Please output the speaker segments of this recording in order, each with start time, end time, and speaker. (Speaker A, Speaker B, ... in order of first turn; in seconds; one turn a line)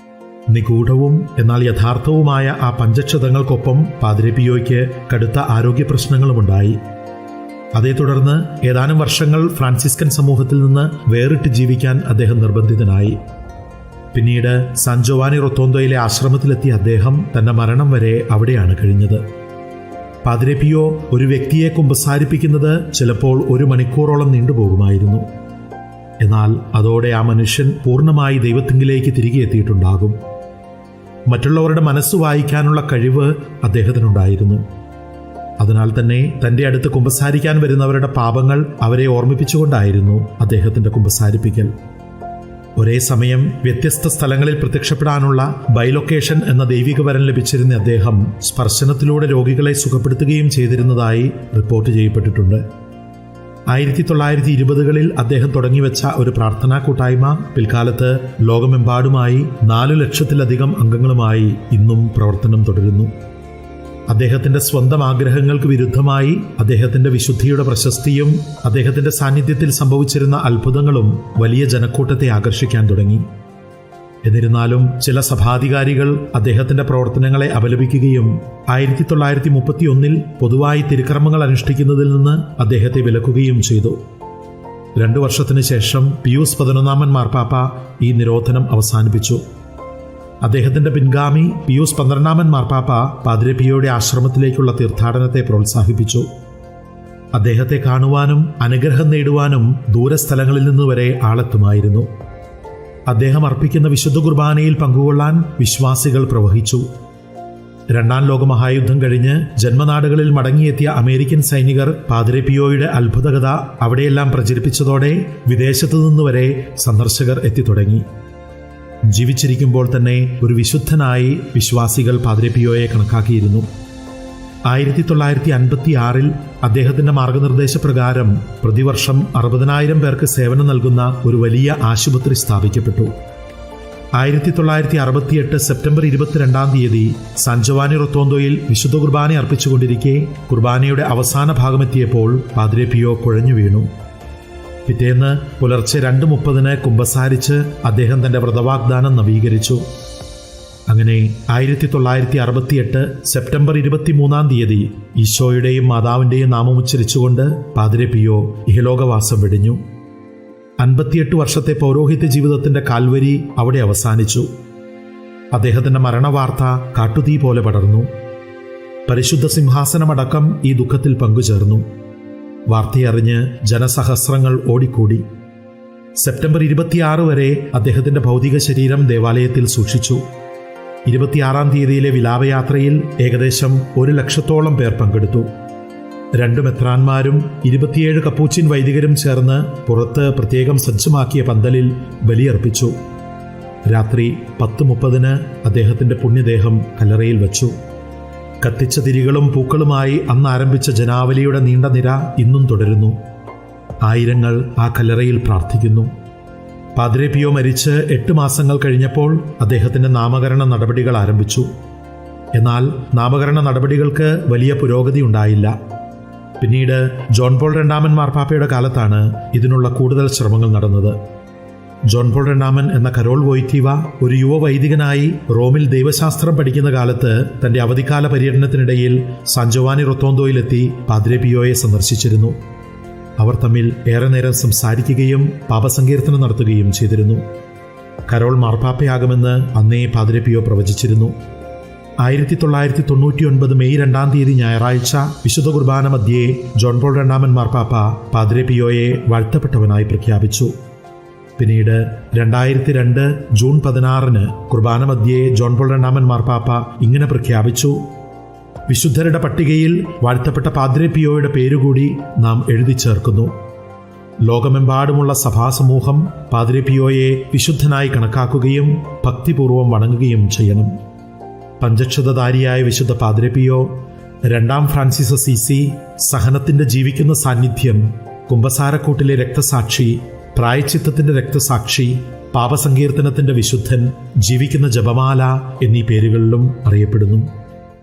Speaker A: 0.5-6.8
Speaker A: 7.7-13.2
Speaker A: 14.1-19.2
Speaker A: 20.2-25.3
Speaker A: 26.2-30.2
Speaker A: 31.3-34.6
Speaker A: 35.6-41.7
Speaker A: 42.8-52.6
Speaker A: 53.7-63.1
Speaker A: 64.1-73.2
Speaker A: 74.2-84.0
Speaker A: 85.0-89.4
Speaker A: 90.4-96.3
Speaker A: 97.3-102.1
Speaker A: 103.1-106.9
Speaker A: 107.9-118.0
Speaker A: 119.1-123.7
Speaker A: 124.7-133.1
Speaker A: 134.2-143.9
Speaker A: 144.8-149.8
Speaker A: 150.9-159.8
Speaker A: 160.8-164.5
Speaker A: 165.5-168.1
Speaker A: 169.1-171.8
Speaker A: 172.7-175.2
Speaker A: 176.2-180.2
Speaker A: 181.1-185.5
Speaker A: 186.3-192.9
Speaker A: 193.8-197.8
Speaker A: 198.6-203.2
Speaker A: 204.0-206.1
Speaker A: 206.9-211.7
Speaker A: 212.5-215.7
Speaker A: 216.6-221.2
Speaker A: 222.1-232.6
Speaker A: 233.4-237.4
Speaker A: 238.3-241.3
Speaker A: 242.2-250.7
Speaker A: 251.6-258.0
Speaker A: 258.9-263.5
Speaker A: 264.4-270.9
Speaker A: 271.8-287.5